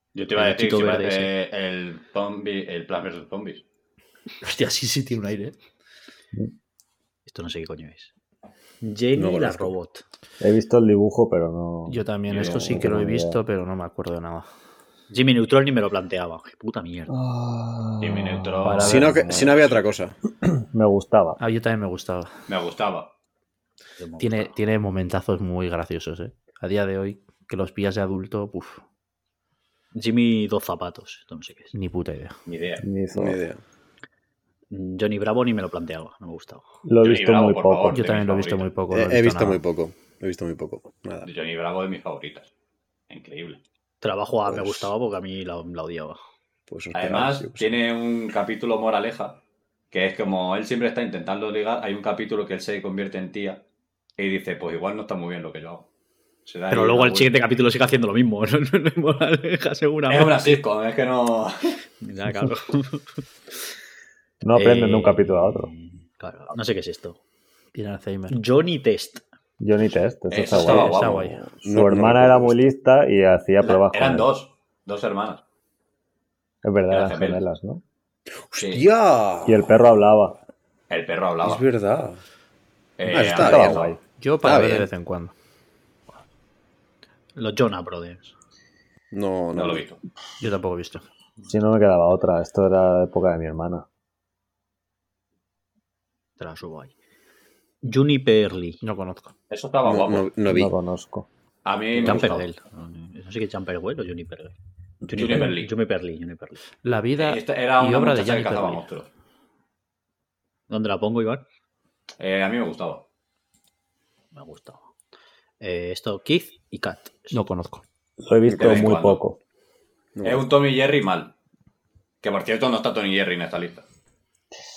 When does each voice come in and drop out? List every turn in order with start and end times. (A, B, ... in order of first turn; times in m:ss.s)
0:00.2-0:03.6 A
0:00.4-0:01.3 B
0:04.4-0:05.6 C
0:07.3-0:08.1 B
0:08.8-0:10.0 B
0:09.2-0:09.7 D
0:10.4-0:13.4 E
0:11.9-0:14.5 C
0:12.3-0:12.8 A
0:15.1-0:17.2 B
0:17.1-0:19.5 E
0:18.0-0:19.7 A
0:18.6-0:19.2 C
0:18.8-0:20.2 D
0:20.4-0:21.4 E
0:21.4-0:22.3 C
0:22.5-0:23.1 A
0:24.0-0:24.6 B
0:24.2-0:28.8 C
0:29.9-0:31.7 B
0:31.7-0:32.4 C
0:32.5-0:32.8 A
0:32.8-0:33.4 E
0:33.1-0:33.6 D
0:34.7-0:36.6 B
0:36.8-0:38.0 E
0:37.0-0:38.7 A
0:37.9-0:39.6 C
0:38.9-0:41.3 D
0:41.2-0:42.5 A
0:43.1-0:43.6 A
0:44.0-0:46.2 B
0:44.5-0:44.9 D
0:46.7-0:47.8 D
0:46.9-0:49.4 A
0:49.9-0:53.6 A
0:54.2-0:55.9 A
0:56.5-0:57.4 A
0:56.7-1:00.6 B
1:00.1-1:01.8 A
1:02.0-1:03.2 B
1:04.4-1:05.7 E
1:04.5-1:07.2 B
1:07.7-1:08.4 C
1:08.3-1:09.2 B
1:09.6-1:11.0 E
1:10.3-1:11.4 A
1:10.5-1:11.4 C
1:11.4-1:12.6 D
1:11.7-1:14.3 E
1:13.6-1:15.4 A
1:16.6-1:17.8 E
1:16.9-1:17.4 A
1:18.5-1:19.7 D
1:18.6-1:18.8 A
1:19.4-1:20.4 E
1:20.9-1:21.6 A
1:21.4-1:22.2 D
1:23.0-1:24.0 A
1:23.1-1:24.9 D
1:23.2-1:24.0 E
1:24.2-1:25.3 C
1:27.4-1:28.3 B
1:29.1-1:29.8 D
1:29.6-1:30.0 A
1:30.4-1:31.0 C
1:31.5-1:33.9 E
1:36.4-1:36.9 B
1:37.8-1:38.8 B
1:38.8-1:39.3 C
1:39.5-1:40.3 A
1:39.8-1:40.7 D
1:40.5-1:41.3 E
1:41.6-1:42.4 A
1:42.0-1:44.6 B
1:42.0-1:42.3 D
1:45.1-1:46.6 B
1:45.1-1:45.7 A
1:46.8-1:48.9 C
1:47.2-1:49.1 A
1:50.7-1:51.4 B
1:52.2-1:53.0 A
1:54.3-1:54.9 B
1:55.6-1:57.4 B
1:57.3-1:57.8 C
1:58.2-1:59.4 E
1:58.5-1:58.9 D
1:58.5-1:59.2 A
2:00.2-2:00.6 D
2:00.2-2:01.3 A
2:02.2-2:03.8 A